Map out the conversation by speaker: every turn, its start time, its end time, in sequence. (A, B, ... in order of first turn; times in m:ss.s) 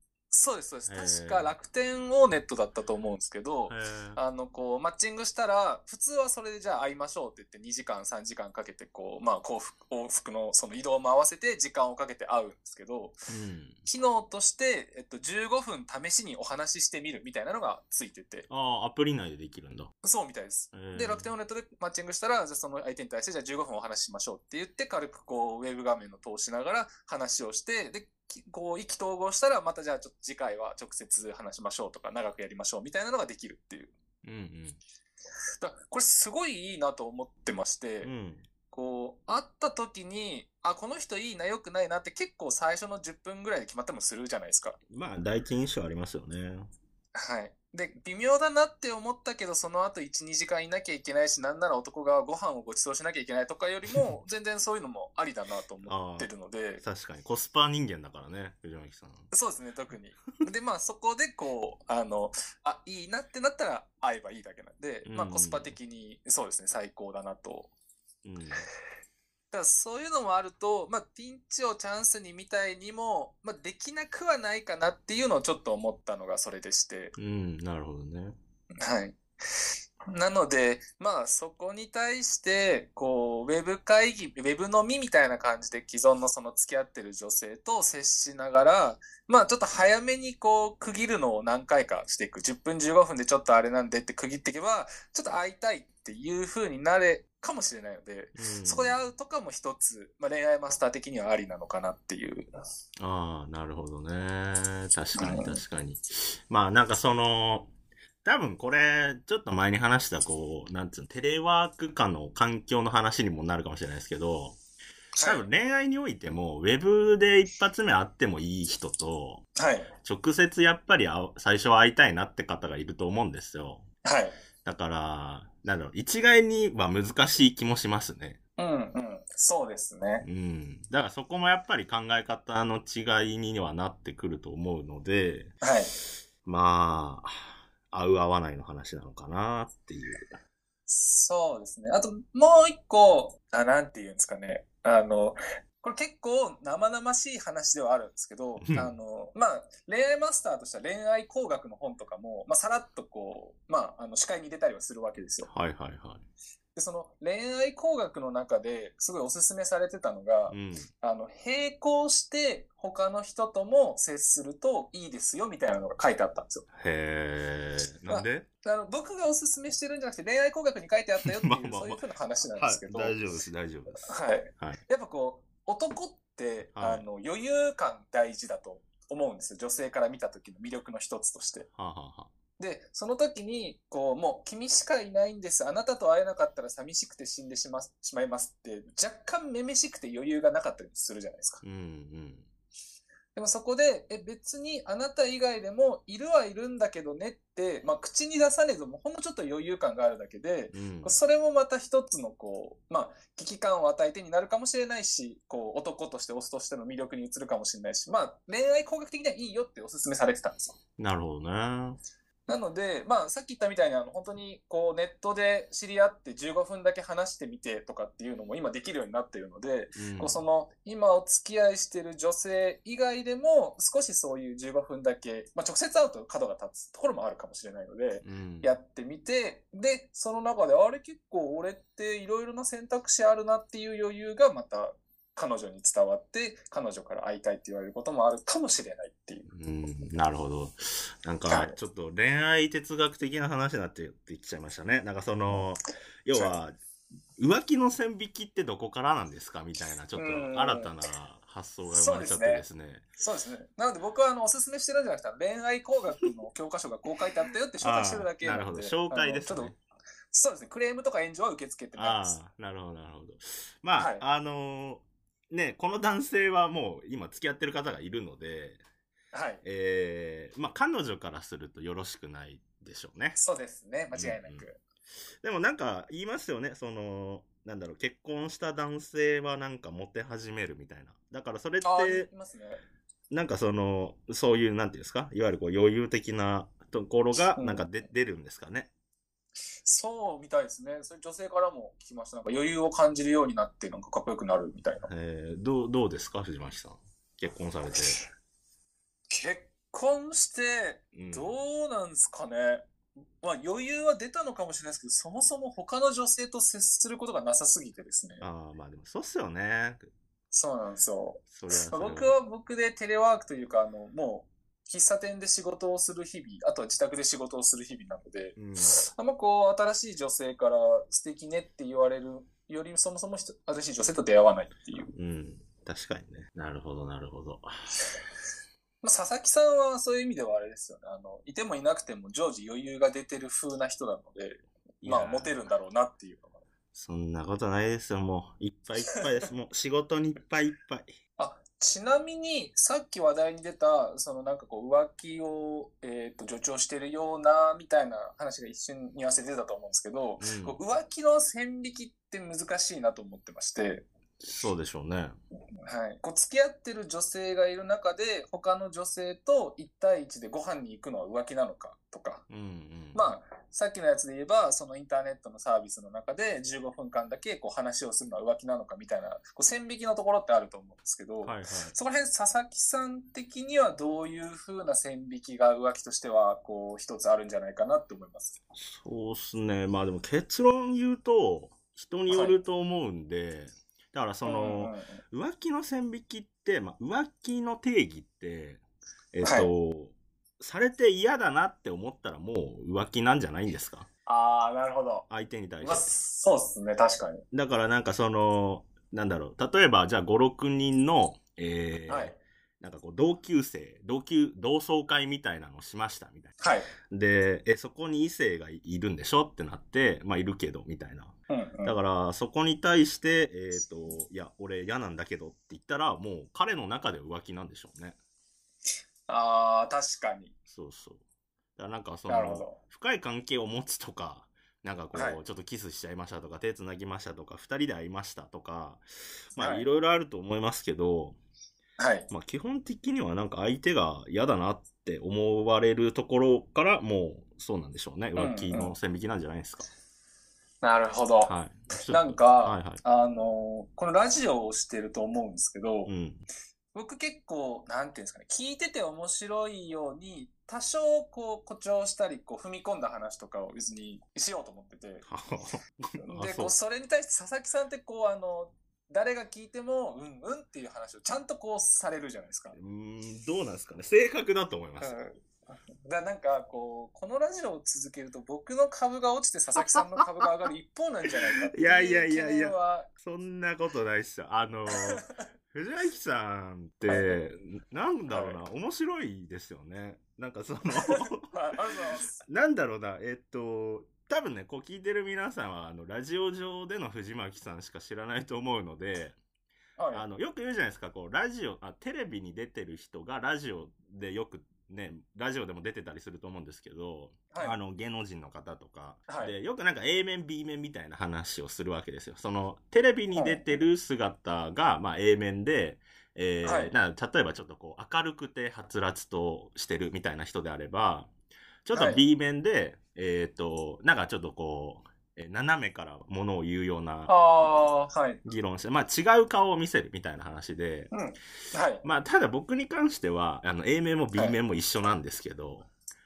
0:00.3-0:13.2 A
0:00.9-0:01.5 B
0:03.7-0:04.2 B
0:13.3-0:13.8 B
0:13.8-0:18.5 A
0:18.5-0:19.9 B
0:20.0-0:33.9 A
0:20.7-0:21.3 B
0:34.2-0:34.8 B
0:35.6-0:38.1 A
0:38.0-0:38.4 B
0:38.7-0:44.8 A
0:44.9-0:46.7 B
0:47.1-0:56.8 A
0:55.8-0:56.3 B
0:56.8-0:59.3 B
0:59.3-1:07.7 A
1:05.0-1:05.7 B
1:08.2-1:08.6 B
1:09.5-1:17.1 A
1:17.2-1:18.3 B
1:18.8-1:42.5 A
1:38.4-1:39.0 B
1:43.0-1:47.7 B
1:45.2-1:45.6 A
1:48.2-1:54.6 B
1:55.1-1:55.4 A
1:55.2-1:59.4 B
1:59.6-1:59.9 A
2:00.0-2:03.8 B
2:04.0-2:04.4 A
2:04.6-2:08.4 B
2:08.6-2:10.2 A
2:10.2-2:15.5 B
2:15.6-2:15.9 A
2:16.4-2:20.2 B
2:20.9-2:35.5 A
2:28.6-2:28.9 B
2:35.5-2:36.2 B
2:36.7-2:46.6 A
2:40.5-2:40.9 B
2:46.8-2:48.5 B
2:48.1-2:53.2 A
2:51.4-2:52.0 B
2:52.6-2:54.8 B
2:54.1-3:01.7 A
2:56.8-2:57.0 B
3:01.8-3:02.3 B
3:02.6-3:11.6 A
3:11.6-3:12.5 B
3:13.3-3:30.8 A
3:20.7-3:21.2 B
3:31.0-3:32.0 B
3:32.5-3:59.5 A
3:40.0-3:40.4 B
3:48.2-3:48.7 B
3:59.5-4:06.7 B
4:01.5-4:01.7 A
4:07.4-4:13.0 B
4:10.1-4:10.9 A
4:11.9-4:12.6 A
4:13.2-4:19.7 A
4:17.8-4:19.8 B
4:20.3-4:22.4 A
4:22.0-4:28.8 B
4:24.0-4:24.2 A
4:29.3-4:29.6 A
4:29.6-4:33.4 B
4:33.4-4:34.8 A
4:34.1-4:34.7 B
4:35.4-4:42.3 B
4:41.8-4:42.8 A
4:43.3-4:48.9 B
4:47.6-4:47.9 A
4:49.8-4:55.1 A
4:55.1-4:58.2 B
4:59.3-5:02.8 A
5:01.1-5:01.5 B
5:03.4-5:08.4 A
5:08.4-5:10.1 B
5:10.5-5:25.1 A
5:11.5-5:12.4 B
5:18.6-5:19.0 B
5:25.1-5:27.7 B
5:29.0-5:36.6 A
5:35.0-5:35.6 B
5:36.9-5:41.1 B
5:41.4-5:54.0 A
5:50.4-5:50.8 B
5:54.4-5:55.3 B
5:55.8-6:02.4 A
6:02.5-6:03.2 B
6:03.1-6:18.6 A
6:11.4-6:11.9 B
6:18.7-6:34.1 B
6:22.3-6:22.6 A
6:24.4-6:25.2 A
6:29.4-6:29.7 A
6:34.2-6:35.2 A
6:35.3-6:36.1 B
6:35.8-6:37.4 A
6:37.5-6:46.5 B
6:42.1-6:42.4 A
6:46.6-6:46.9 A
6:47.1-6:51.3 B
6:51.5-6:52.0 A
6:51.8-6:58.2 B
6:59.3-7:00.5 A
7:00.7-7:01.2 B
7:01.8-7:09.0 B
7:02.3-7:02.8 A
7:05.1-7:05.4 A
7:09.5-7:11.4 B
7:09.6-7:09.9 A
7:12.0-7:12.3 A
7:12.3-7:19.9 B
7:18.4-7:18.9 A
7:20.8-7:21.5 A
7:21.4-7:23.0 B
7:22.1-7:26.1 A
7:26.1-7:26.4 B
7:26.9-7:35.2 A
7:35.2-7:36.7 B
7:36.2-7:42.8 A
7:42.7-7:45.2 B
7:45.0-7:45.4 A
7:46.0-7:53.1 A
7:51.7-8:01.4 B
7:54.9-7:55.2 A
7:57.1-7:57.4 A
7:58.3-7:58.6 A
8:01.0-8:02.4 A
8:02.4-8:09.4 B
8:10.0-8:10.2 A
8:10.1-8:31.3 B
8:19.3-8:19.5 A
8:23.3-8:23.6 A
8:26.6-8:26.9 A
8:31.8-8:37.4 B
8:31.9-8:32.2 A
8:37.3-8:38.4 A
8:38.4-8:41.1 B
8:41.1-8:42.0 A
8:42.0-8:45.9 B